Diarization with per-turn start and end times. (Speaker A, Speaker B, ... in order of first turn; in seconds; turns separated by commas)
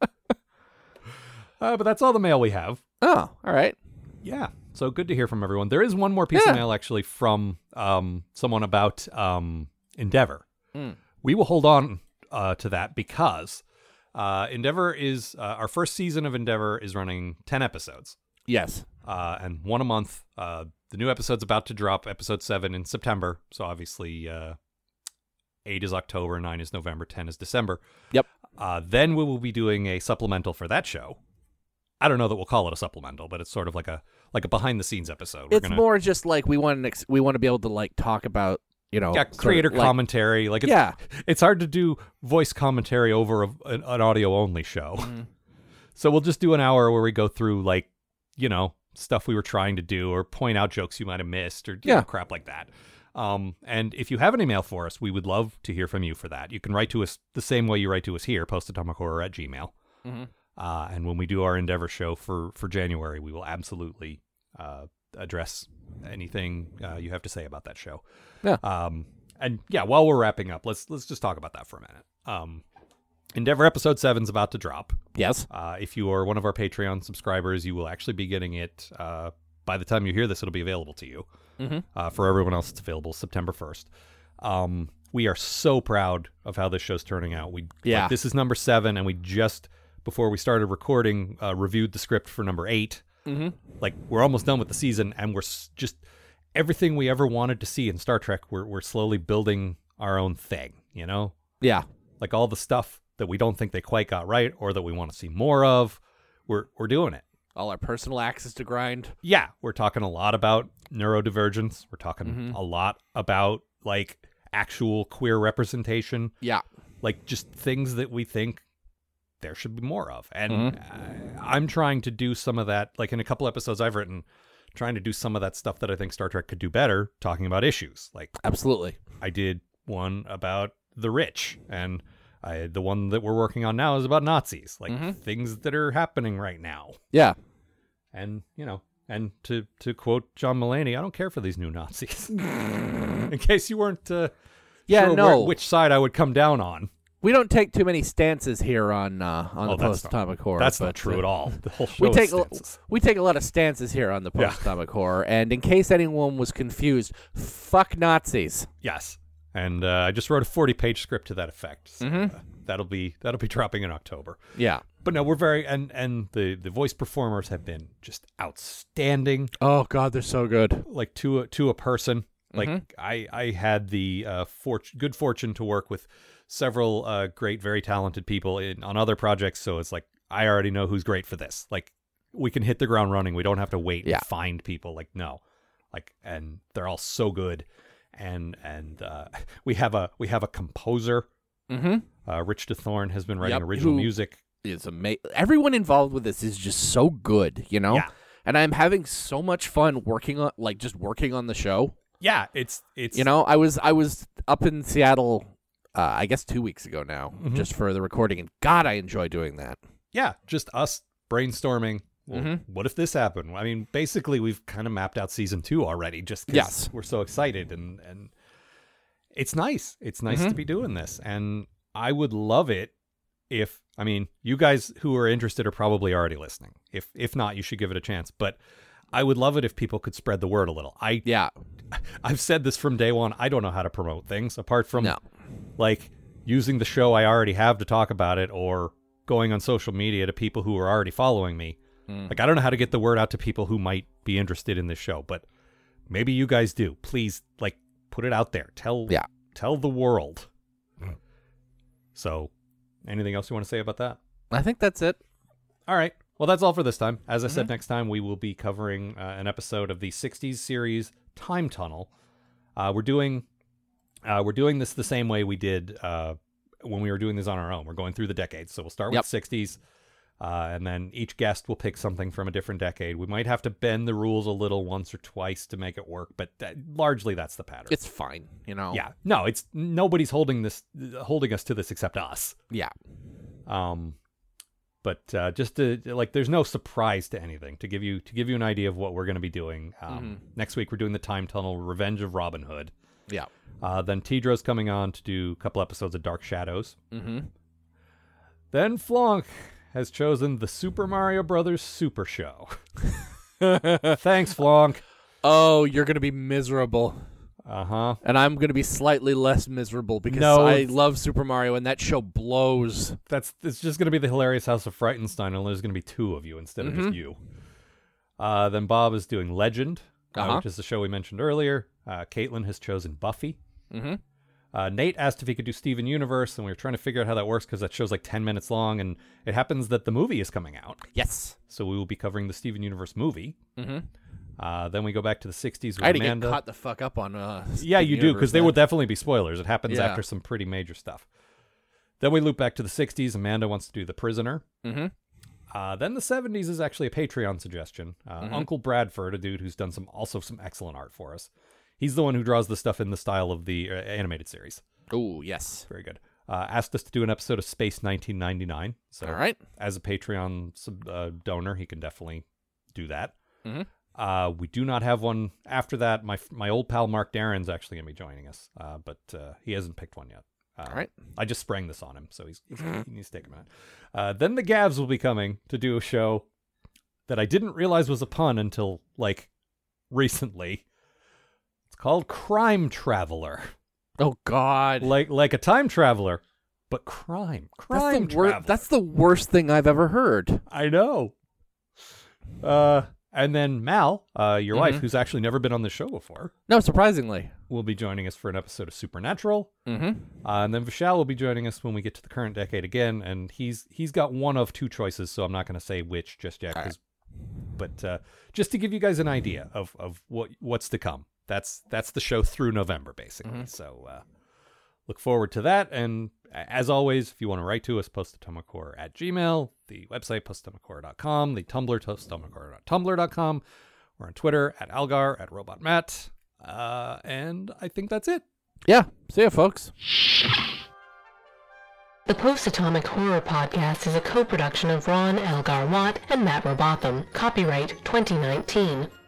Speaker A: 1.6-2.8, Speaker B: 3.0-3.8, Speaker A: 4.2-10.4, Speaker B: 6.3-6.6, Speaker A: 11.2-13.6, Speaker A: 14.1-18.2, Speaker B: 18.5-18.9, Speaker A: 19.0-24.6, Speaker A: 25.6-27.8, Speaker A: 28.6-31.2, Speaker A: 32.0-35.8, Speaker B: 35.5-40.0, Speaker A: 39.1-45.1, Speaker B: 40.6-41.0, Speaker B: 45.0-45.3, Speaker A: 46.0-59.7, Speaker B: 60.0-60.3, Speaker A: 60.5-68.0, Speaker A: 68.6-72.6, Speaker A: 73.3-75.0, Speaker B: 75.1-75.5, Speaker A: 75.5-81.2, Speaker B: 81.6-81.8, Speaker A: 81.9-93.0, Speaker B: 87.8-88.1, Speaker B: 93.2-93.6, Speaker A: 93.8-96.0, Speaker A: 96.5-101.3, Speaker B: 101.6-101.8, Speaker A: 102.2-107.2, Speaker B: 107.5-109.1, Speaker A: 109.2-116.3, Speaker B: 112.2-112.6, Speaker A: 117.0-118.6, Speaker A: 119.4-128.4, Speaker B: 120.5-120.8, Speaker B: 128.4-129.0, Speaker A: 129.2-137.0, Speaker B: 134.9-135.2, Speaker B: 137.1-137.4, Speaker A: 138.1-142.4, Speaker A: 143.2-144.3, Speaker B: 144.9-145.5, Speaker A: 144.9-146.9, Speaker B: 147.2-151.3, Speaker A: 149.6-152.7, Speaker B: 152.0-158.7, Speaker A: 154.3-154.7, Speaker A: 158.8-164.4, Speaker B: 162.0-162.3, Speaker B: 164.6-164.8, Speaker A: 165.0-169.5, Speaker B: 169.6-170.8, Speaker A: 170.8-185.4, Speaker B: 172.5-172.8, Speaker A: 185.9-191.3, Speaker B: 191.7-192.1, Speaker A: 192.2-194.4, Speaker B: 193.4-194.1, Speaker B: 194.6-201.9, Speaker A: 202.2-203.2, Speaker B: 203.1-209.8, Speaker A: 207.4-207.7, Speaker A: 210.1-218.3, Speaker B: 212.3-212.6, Speaker B: 216.5-216.9, Speaker A: 219.3-222.9, Speaker B: 220.3-220.6, Speaker A: 223.5-228.6, Speaker A: 229.1-231.2, Speaker B: 231.2-231.5, Speaker A: 231.9-235.2, Speaker A: 235.8-241.8, Speaker B: 242.1-242.3, Speaker A: 242.3-245.4, Speaker A: 246.1-250.5, Speaker A: 252.1-252.5, Speaker A: 253.0-254.2, Speaker B: 254.5-255.2, Speaker A: 255.9-262.1, Speaker A: 262.8-263.4, Speaker A: 264.2-269.8, Speaker A: 270.4-278.0, Speaker B: 277.9-279.0, Speaker A: 278.9-282.6, Speaker A: 283.6-284.2, Speaker A: 285.0-292.9, Speaker B: 290.1-290.4, Speaker A: 293.8-297.0, Speaker B: 297.1-297.5, Speaker A: 298.7-302.8, Speaker B: 303.6-304.2, Speaker A: 304.1-305.0, Speaker B: 305.4-307.2, Speaker A: 307.6-308.2, Speaker B: 308.2-313.2, Speaker A: 310.3-310.9, Speaker A: 313.3-317.4, Speaker B: 316.8-317.1, Speaker A: 318.4-323.6, Speaker B: 320.3-320.6, Speaker B: 323.9-324.2, Speaker A: 324.7-331.0, Speaker B: 331.1-331.6, Speaker A: 331.7-333.6, Speaker B: 333.8-334.1, Speaker A: 334.6-336.6, Speaker B: 336.0-338.8, Speaker A: 337.8-341.2, Speaker B: 339.9-340.2, Speaker A: 342.2-344.6, Speaker B: 344.8-345.1, Speaker A: 345.7-354.8, Speaker B: 348.4-348.7, Speaker B: 355.1-355.9, Speaker A: 355.9-363.3, Speaker B: 359.2-359.6, Speaker A: 364.1-376.4, Speaker B: 370.9-371.1, Speaker A: 377.3-379.5, Speaker A: 380.1-380.8, Speaker A: 381.9-383.7, Speaker B: 384.2-385.1, Speaker A: 385.0-388.8, Speaker B: 387.9-390.6, Speaker A: 390.7-391.3, Speaker A: 392.6-396.5, Speaker B: 394.7-395.0, Speaker B: 396.7-397.5, Speaker A: 397.7-399.7, Speaker B: 399.9-400.3, Speaker A: 400.4-407.0, Speaker A: 407.8-414.2, Speaker A: 415.1-423.6, Speaker A: 424.2-428.4, Speaker B: 428.9-429.9, Speaker C: 432.3-439.1